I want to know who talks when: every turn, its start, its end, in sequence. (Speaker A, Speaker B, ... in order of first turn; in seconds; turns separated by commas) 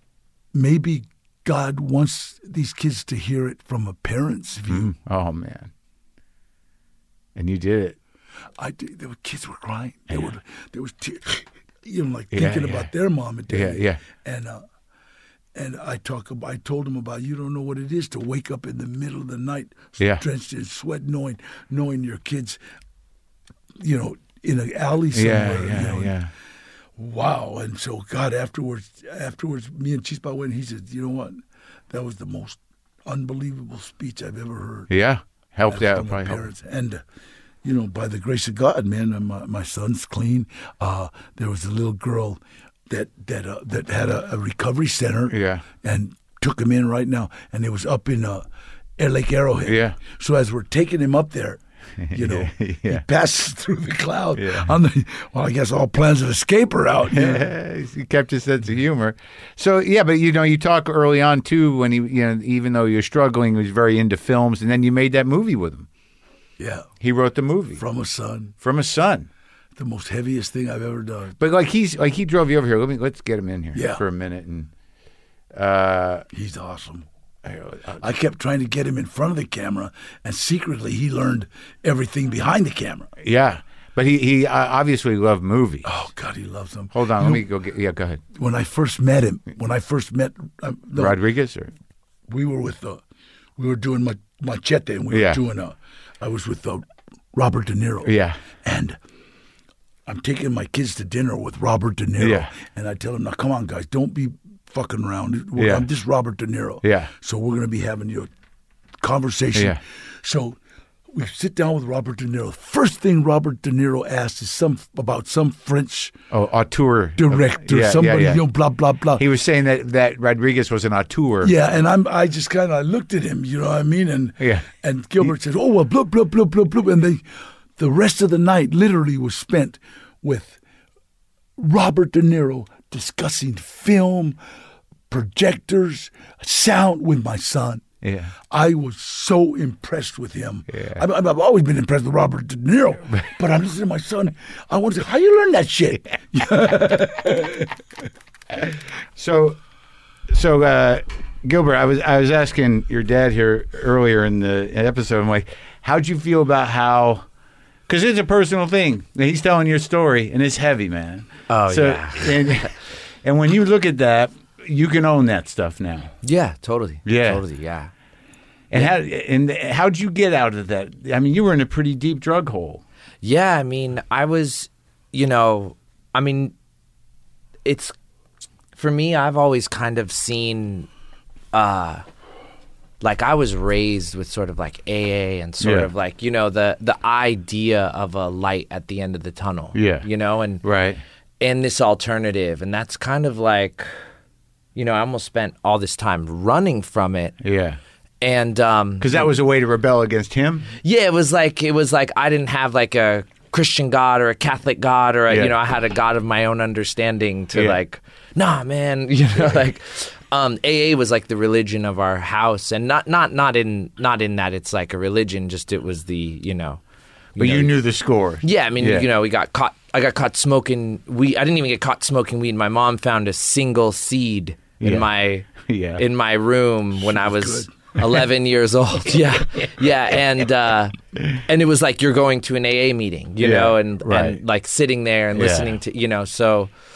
Speaker A: 0.5-4.9, Speaker B: 4.7-5.7, Speaker B: 7.3-8.0, Speaker A: 8.6-14.6, Speaker B: 12.3-12.9, Speaker B: 13.5-14.0, Speaker A: 15.5-22.6, Speaker B: 20.0-20.2, Speaker A: 23.8-26.1, Speaker B: 25.1-26.3, Speaker A: 27.0-34.9, Speaker B: 34.9-36.4, Speaker A: 35.7-37.0, Speaker A: 37.6-48.4, Speaker B: 45.3-45.6, Speaker A: 49.0-51.6, Speaker B: 49.6-50.0, Speaker B: 52.0-53.0, Speaker A: 52.1-57.5, Speaker B: 54.4-54.7, Speaker B: 57.1-65.9, Speaker A: 66.6-66.9, Speaker B: 67.0-67.8, Speaker A: 67.8-68.5, Speaker B: 68.6-69.3, Speaker A: 69.8-71.3, Speaker B: 71.4-74.7, Speaker A: 73.7-74.0, Speaker B: 75.5-76.3, Speaker A: 76.3-77.1, Speaker B: 77.4-78.0, Speaker A: 78.0-83.1, Speaker B: 83.2-85.9, Speaker A: 85.8-87.5, Speaker B: 86.9-88.2, Speaker A: 88.3-91.2, Speaker B: 90.9-91.7, Speaker A: 92.3-93.0, Speaker A: 93.6-99.0, Speaker B: 95.1-95.4, Speaker B: 98.0-98.4, Speaker A: 100.0-108.3, Speaker B: 102.2-102.5, Speaker B: 105.5-105.8, Speaker B: 106.8-107.1, Speaker A: 109.0-110.6, Speaker B: 109.5-109.8, Speaker A: 111.1-116.2, Speaker B: 116.3-118.4, Speaker A: 117.2-119.2, Speaker B: 119.2-121.5, Speaker A: 121.4-127.2, Speaker B: 124.4-124.7, Speaker A: 127.8-130.6, Speaker A: 131.6-134.4, Speaker A: 135.1-137.8, Speaker B: 138.0-138.3, Speaker A: 138.5-147.8, Speaker B: 140.7-141.0, Speaker B: 149.2-149.6, Speaker B: 150.3-157.2, Speaker B: 157.9-162.7, Speaker C: 161.5-162.7, Speaker B: 163.2-166.1, Speaker C: 166.2-167.9, Speaker B: 167.0-167.4, Speaker B: 168.7-172.8, Speaker C: 173.2-176.5, Speaker C: 177.6-177.9, Speaker C: 178.8-180.9, Speaker C: 181.5-182.0, Speaker C: 183.0-190.6, Speaker B: 185.6-185.9, Speaker B: 189.7-190.1, Speaker B: 190.6-191.0, Speaker C: 191.4-193.9, Speaker C: 194.7-197.3, Speaker B: 197.4-197.8, Speaker C: 198.2-199.3, Speaker B: 199.0-200.7, Speaker C: 200.8-216.8, Speaker B: 205.3-205.5, Speaker B: 207.5-207.8, Speaker C: 217.3-217.8, Speaker B: 217.4-219.1, Speaker C: 218.4-236.7, Speaker B: 224.8-226.0, Speaker A: 226.9-228.0, Speaker B: 233.4-234.4, Speaker B: 235.3-235.8